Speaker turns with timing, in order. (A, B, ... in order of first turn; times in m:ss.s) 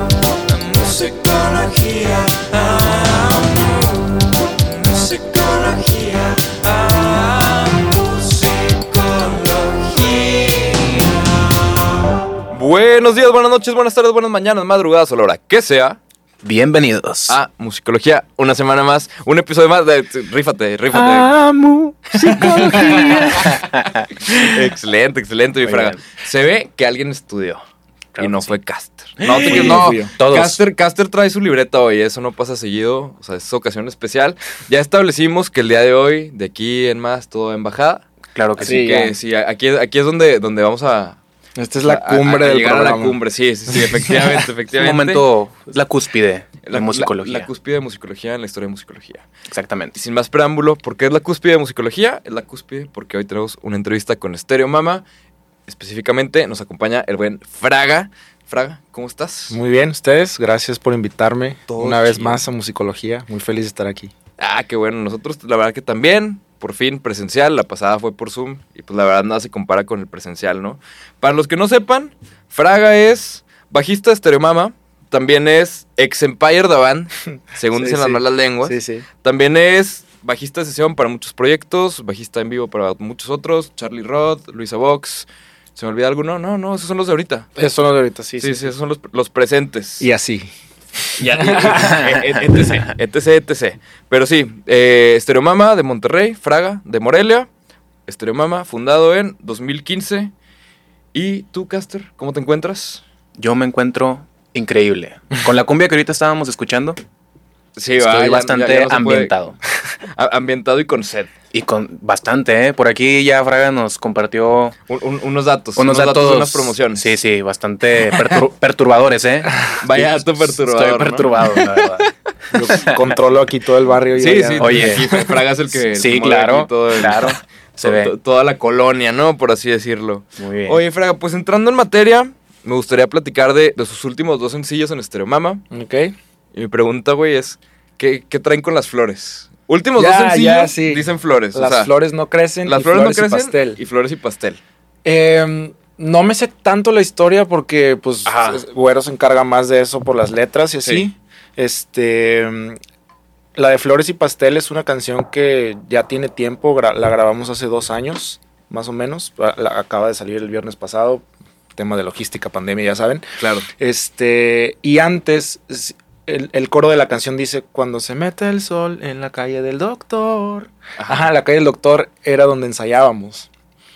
0:00.3-0:03.5 A
0:04.7-0:11.0 A
0:12.5-0:16.0 A
0:16.4-0:17.4 B
0:17.3-0:21.3 A
0:20.9-0:24.6 B
0:22.2-0:23.6 A
0:24.2-0:27.6 A
0:25.6-0:26.0 B
0:28.1-0:28.5 B
0:28.2-0:38.0 A
0:29.2-0:30.6 B
0:29.4-0:30.1 C
0:38.3-0:38.8 B
0:38.6-0:41.2 A
0:38.6-0:39.2 C
0:41.6-0:43.2 C
0:41.8-0:45.2 A
0:43.7-0:44.2 C
0:44.7-0:47.5 B
0:46.6-0:49.3 A
0:49.5-0:50.0 B
0:50.0-0:55.0 A
0:55.7-0:59.6 A
0:59.5-1:04.1 C
1:01.7-1:02.4 A
1:04.4-1:27.5 A
1:17.8-1:19.0 C
1:27.6-1:28.7 C
1:28.4-1:30.1 A
1:30.0-1:30.5 C
1:31.0-1:32.2 C
1:31.2-1:37.5 A
1:38.1-1:40.3 A
1:41.1-1:43.0 A
1:43.4-1:47.0 B
1:47.8-1:49.3 A
1:48.0-1:49.6 B
1:50.1-1:51.3 A
1:51.5-1:54.7 B
1:54.9-1:57.1 A
1:55.8-2:02.1 B
1:59.8-2:01.6 A
2:02.5-2:05.4 C
2:02.7-2:03.0 B
2:04.2-2:15.6 A
2:04.6-2:05.1 B
2:05.9-2:08.1 B
2:10.4-2:10.8 B
2:15.7-2:16.1 C
2:16.5-2:21.9 A
2:20.0-2:23.8 C
2:22.6-2:24.6 A
2:25.0-2:32.8 C
2:28.2-2:28.6 A
2:33.5-2:53.5 C
2:43.4-2:43.7 A
2:51.0-2:51.3 A